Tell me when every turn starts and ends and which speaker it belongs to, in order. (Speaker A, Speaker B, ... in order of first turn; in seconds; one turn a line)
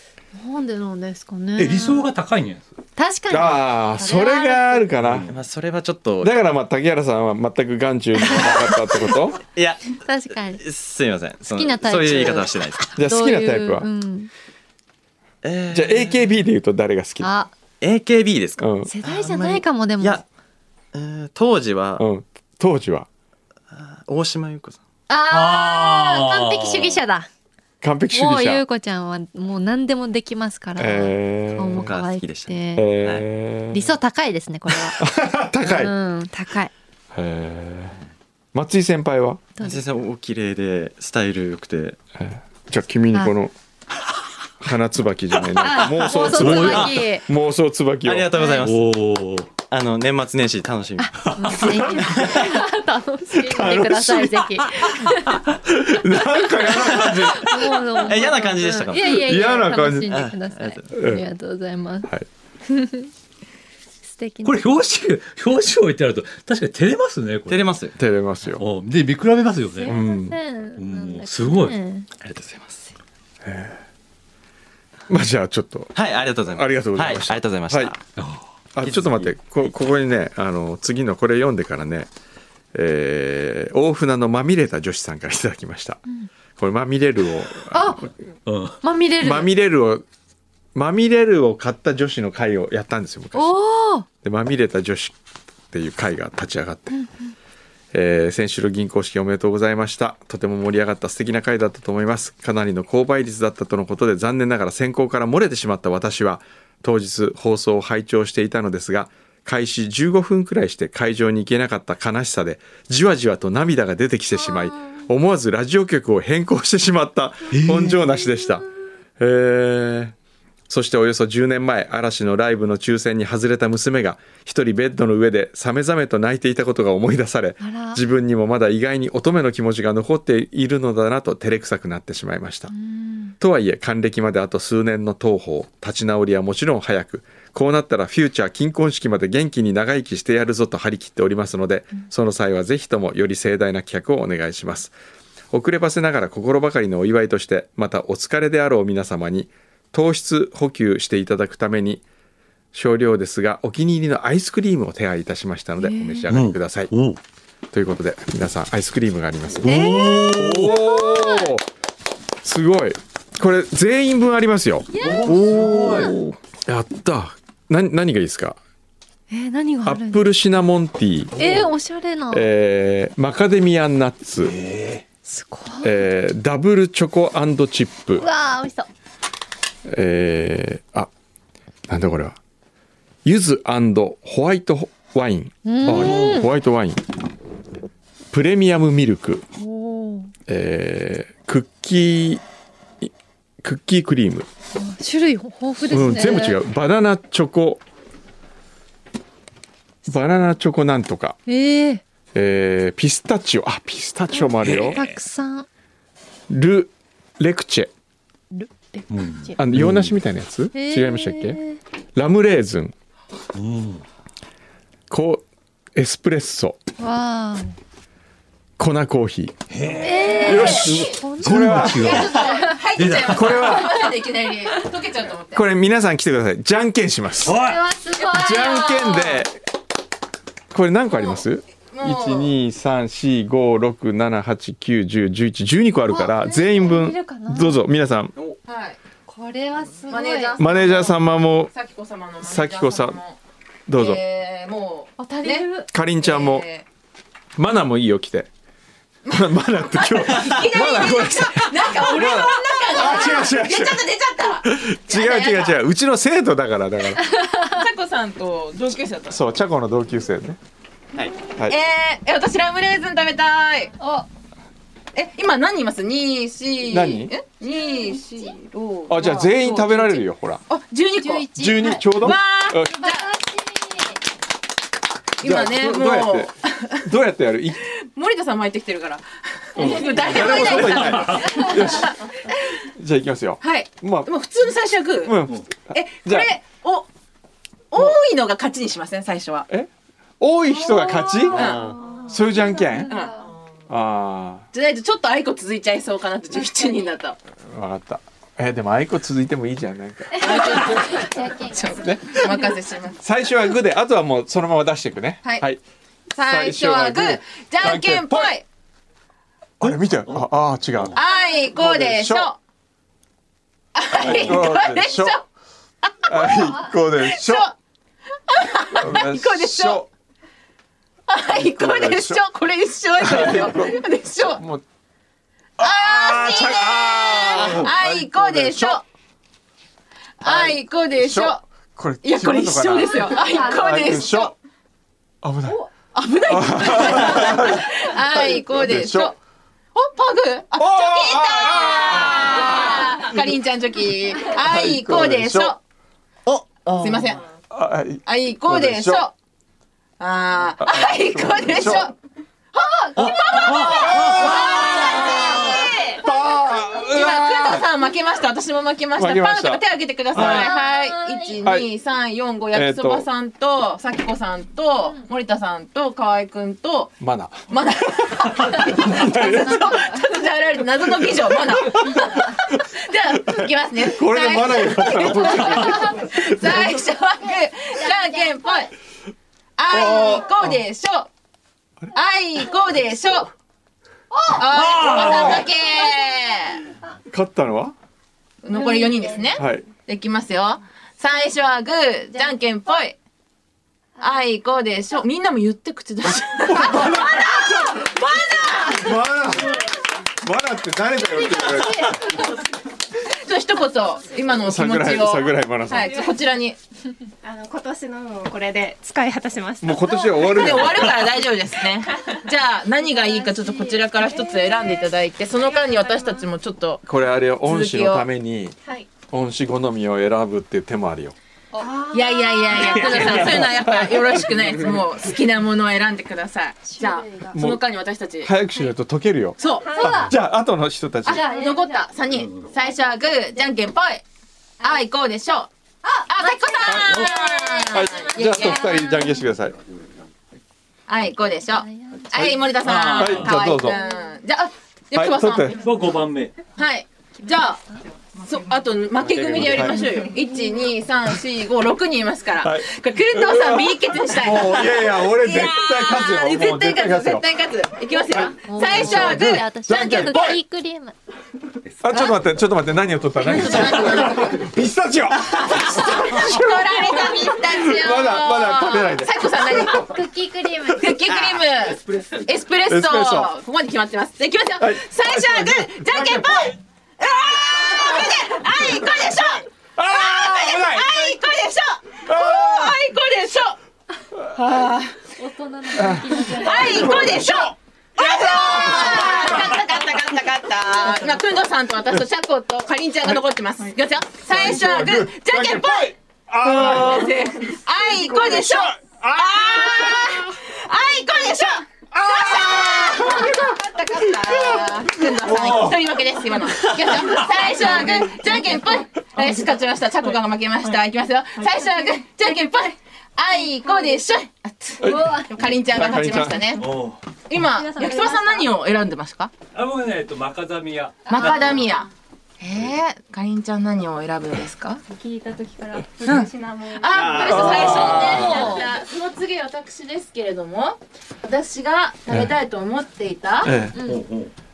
Speaker A: 0.3-2.1
Speaker B: 1.6-2.7
Speaker A: 3.0-4.9
Speaker C: 3.3-5.3
Speaker B: 5.0-5.4
Speaker D: 5.3-6.3
Speaker C: 6.2-9.4
Speaker D: 8.3-12.9
Speaker A: 10.0-10.6
Speaker A: 11.4-14.3
Speaker C: 13.0-13.9
Speaker D: 15.4-16.3
Speaker C: 15.7-17.3
Speaker A: 17.2-17.5
Speaker D: 17.8-20.2
Speaker C: 18.6-18.9
Speaker A: 18.9-20.2
Speaker D: 20.9-22.1
Speaker C: 22.0-23.1
Speaker D: 23.7-24.8
Speaker A: 25.1-27.3
Speaker B: 25.3-26.8
Speaker C: 27.8-28.6
Speaker A: 28.1-32.9
Speaker C: 30.8-31.9
Speaker D: 31.8-33.3
Speaker C: 32.8-34.0
Speaker A: 33.7-35.1
Speaker C: 35.0-35.9
Speaker A: 35.6-36.7
Speaker C: 37.1-38.0
Speaker C: 38.5-39.4
Speaker A: 39.6-39.8
Speaker D: 39.6-42.0
Speaker C: 42.2-43.5
Speaker C: 44.6-48.3
Speaker A: 45.6-47.3
Speaker D: 46.1-47.0
Speaker B: 46.3-46.9
Speaker D: 48.0-49.0
Speaker A: 48.4-48.6
Speaker B: 48.6-49.5
Speaker D: 49.7-52.5
Speaker A: 51.0-55.4
Speaker B: 51.3-51.8
Speaker C: 53.4-54.6
Speaker C: 55.6-57.7
Speaker A: 56.3-62.1
Speaker D: 56.8-57.4
Speaker D: 58.0-59.3
Speaker C: 59.0-60.2
Speaker D: 60.1-60.9
Speaker C: 60.9-61.2
Speaker A: 62.7-63.1
Speaker A: 64.0-64.7
Speaker B: 64.5-67.7
Speaker D: 67.5-68.0
Speaker C: 68.0-68.6
Speaker B: 68.5-71.8
Speaker A: 69.7-72.1
Speaker C: 69.9-70.3
Speaker D: 72.2-72.8
Speaker C: 73.4-73.8
Speaker C: 75.1-75.9
Speaker D: 76.0-78.0
Speaker C: 76.5-77.9
Speaker B: 78.2-78.4
Speaker C: 78.7-82.1
Speaker D: 78.8-79.3
Speaker C: 82.7-86.0
Speaker C: 86.6-88.1
Speaker A: 87.7-88.1
Speaker B: 88.5-88.8
Speaker A: 88.8-89.5
Speaker C: 89.2-90.1
Speaker C: 90.8-93.6
Speaker A: 93.3-94.1
Speaker C: 94.2-95.2
Speaker C: 95.7-97.0
Speaker A: 96.9-97.3
Speaker C: 97.9-118.7
Speaker A: 114.3-115.1
Speaker B: 117.5-118.0
Speaker A: 118.1-118.6
Speaker C: 119.2-120.2
Speaker C: 120.7-132.7
Speaker A: 127.6-128.0
Speaker A: 132.7-133.3
Speaker C: 133.4-144.9
Speaker C: 145.5-152.0
Speaker C: 152.7-156.9
Speaker A: 155.8-156.3
Speaker B: 156.3-157.2
Speaker C: 157.7-161.7
Speaker B: 159.6-160.8
Speaker A: 159.6-161.5
Speaker C: 162.4-168.6
Speaker A: 164.9-166.2
Speaker B: 165.0-166.2
Speaker A: 169.3-170.2
Speaker C: 169.8-171.6
Speaker A: 171.4-172.5
Speaker B: 171.4-171.7
Speaker C: 172.3-174.6
Speaker B: 174.5-175.0
Speaker A: 175.2-176.0
Speaker C: 175.8-178.3
Speaker A: 178.2-178.9
Speaker C: 179.9-181.1
Speaker C: 181.9-182.4
Speaker C: 183.2-187.1
Speaker A: 185.7-186.5
Speaker B: 185.8-186.4
Speaker C: 188.3-189.4
Speaker A: 189.6-190.3
Speaker C: 190.5-192.4
Speaker C: 193.0-194.5
Speaker A: 194.8-196.6
Speaker C: 195.8-197.8
Speaker C: 200.1-201.4
Speaker A: 201.5-202.0
Speaker C: 202.3-205.0
Speaker A: 204.3-205.7
Speaker B: 204.6-205.2
Speaker C: 206.5-207.9
Speaker A: 208.5-209.6
Speaker B: 209.1-210.1
Speaker C: 209.6-211.6
Speaker A: 210.7-211.8
Speaker C: 212.2-212.9
Speaker B: 213.5-214.0
Speaker C: 215.1-216.8
Speaker A: 217.0-217.8
Speaker C: 218.8-219.6
Speaker B: 219.7-223.7
Speaker A: 220.0-222.8
Speaker E: 220.1-221.1
Speaker C: 220.4-222.3
Speaker E: 222.0-225.7
Speaker C: 223.3-224.1
Speaker C: 225.5-227.6
Speaker B: 227.4-227.8
Speaker A: 227.5-229.4
Speaker E: 228.2-229.4
Speaker C: 228.3-229.6
Speaker C: 230.7-238.3
Speaker E: 231.1-231.4
Speaker E: 231.9-232.5
Speaker A: 236.1-237.8
Speaker E: 238.7-239.0
Speaker A: 239.3-240.6
Speaker E: 240.1-243.4
Speaker C: 240.6-241.7
Speaker C: 242.4-243.2
Speaker C: 243.9-244.2
Speaker E: 244.0-246.9
Speaker A: 245.2-245.9
Speaker C: 245.9-246.7
Speaker C: 247.6-248.5
Speaker E: 249.3-255.8
Speaker C: 249.3-254.0
Speaker C: 254.6-257.2
Speaker A: 257.4-257.7
Speaker E: 257.5-259.4
Speaker C: 259.3-260.6
Speaker E: 261.7-263.9
Speaker A: 264.0-264.3
Speaker E: 265.1-273.3
Speaker C: 266.9-267.3
Speaker A: 267.6-268.5
Speaker C: 269.1-270.6
Speaker A: 271.2-274.2
Speaker C: 271.6-273.0
Speaker E: 275.4-277.0
Speaker C: 275.4-277.8
Speaker E: 278.0-282.8
Speaker C: 279.8-282.2
Speaker A: 279.8-280.7
Speaker B: 280.9-281.5
Speaker A: 281.4-281.8
Speaker C: 282.9-284.3
Speaker E: 283.6-285.4
Speaker C: 285.2-286.5
Speaker E: 285.9-287.1
Speaker E: 287.9-289.7
Speaker C: 290.4-291.8
Speaker A: 290.7-293.5
Speaker E: 291.5-292.0
Speaker D: 291.5-292.0
Speaker C: 292.3-293.1
Speaker E: 293.1-293.4
Speaker C: 293.9-294.7
Speaker E: 294.7-297.4
Speaker C: 297.7-301.2
Speaker E: 300.4-303.2
Speaker A: 300.4-302.4
Speaker C: 303.2-305.8
Speaker E: 306.3-308.6
Speaker C: 306.4-308.5
Speaker C: 309.8-311.2
Speaker B: 309.8-310.5
Speaker E: 311.1-312.6
Speaker C: 311.8-312.5
Speaker E: 313.9-315.4
Speaker C: 314.1-315.4
Speaker E: 316.0-317.7
Speaker C: 316.3-317.7
Speaker E: 318.5-320.1
Speaker C: 319.0-320.1
Speaker E: 321.3-324.6
Speaker C: 321.5-322.4
Speaker C: 323.2-324.0
Speaker C: 324.6-324.8
Speaker C: 325.8-329.0
Speaker E: 325.8-329.0
Speaker E: 330.4-331.6
Speaker C: 330.4-334.5
Speaker E: 332.2-334.5
Speaker A: 333.3-334.2
Speaker C: 335.4-335.8
Speaker E: 336.1-339.4
Speaker C: 336.5-339.3
Speaker E: 339.9-345.8
Speaker C: 340.8-343.3
Speaker C: 344.5-345.8
Speaker D: 346.5-347.0
Speaker E: 347.0-347.4
Speaker C: 347.7-349.3
Speaker E: 348.3-349.3
Speaker E: 350.2-352.1
Speaker C: 350.8-352.1
Speaker E: 352.7-378.9
Speaker C: 353.2-357.9
Speaker B: 353.2-354.7
Speaker C: 359.2-359.8
Speaker C: 360.3-360.7
Speaker A: 360.4-361.6
Speaker C: 361.6-361.9
Speaker C: 362.7-363.3
Speaker C: 367.2-367.7
Speaker C: 368.6-369.8
Speaker A: 369.3-370.2
Speaker C: 372.0-372.2
Speaker C: 373.5-377.0
Speaker E: 379.8-381.3
Speaker C: 379.9-380.7
Speaker E: 382.1-383.5
Speaker A: 384.3-384.6
Speaker E: 384.5-386.9
Speaker B: 384.7-385.6
Speaker C: 385.1-385.6
Speaker C: 387.3-387.9
Speaker E: 388.6-393.2
Speaker A: 388.8-389.3
Speaker C: 389.6-389.9
Speaker E: 394.2-399.2
Speaker C: 396.6-398.1
Speaker C: 398.7-402.5
Speaker E: 403.2-406.8
Speaker C: 404.6-406.2
Speaker F: 407.4-410.6
Speaker C: 409.8-411.3
Speaker E: 410.4-417.0
Speaker A: 413.2-414.4
Speaker C: 417.1-418.8
Speaker E: 417.6-418.3
Speaker C: 419.3-421.4
Speaker A: 421.7-423.4
Speaker E: 422.1-428.5
Speaker B: 422.9-423.5
Speaker C: 423.2-424.7
Speaker A: 426.9-427.6
Speaker C: 427.5-427.8
Speaker C: 428.4-431.5
Speaker E: 429.6-430.3
Speaker A: 429.8-430.3
Speaker E: 431.2-434.2
Speaker A: 431.3-432.1
Speaker E: 434.8-439.1
Speaker A: 436.1-439.4
Speaker C: 436.9-439.8
Speaker E: 441.1-445.9
Speaker A: 441.8-442.3
Speaker B: 442.8-443.6
Speaker C: 443.1-444.0
Speaker C: 445.1-445.8
Speaker B: 445.7-446.6
Speaker E: 446.7-447.8
Speaker E: 448.4-460.5
Speaker D: 449.2-449.9
Speaker C: 449.6-450.0
Speaker C: 452.6-457.4
Speaker A: 458.6-461.2
Speaker C: 458.9-460.6
Speaker C: 462.0-469.6
Speaker E: 463.4-464.6
Speaker A: 463.5-463.9
Speaker E: 465.5-470.2
Speaker A: 469.8-471.2
Speaker E: 470.9-483.8
Speaker C: 472.9-473.5
Speaker C: 474.8-476.8
Speaker C: 477.8-479.3
Speaker C: 480.0-481.4
Speaker C: 482.2-483.0
Speaker E: 484.5-485.2
Speaker A: 485.3-487.3
Speaker C: 485.9-489.6
Speaker E: 486.5-516.9
Speaker C: 494.5-497.3
Speaker C: 498.1-500.5
Speaker C: 502.1-503.7
Speaker C: 504.2-506.0
Speaker C: 515.0-516.9
Speaker A: 515.0-515.6
Speaker B: 516.8-517.2
Speaker E: 517.5-519.5
Speaker A: 517.6-518.7
Speaker B: 519.7-521.6
Speaker E: 521.3-522.1
Speaker A: 521.3-521.6
Speaker E: 522.6-525.0
Speaker A: 525.1-526.5
Speaker E: 526.2-533.8
Speaker D: 527.2-528.2
Speaker C: 527.5-528.0
Speaker A: 527.5-528.9
Speaker C: 533.6-534.0
Speaker A: 533.9-534.2
Speaker B: 534.0-534.5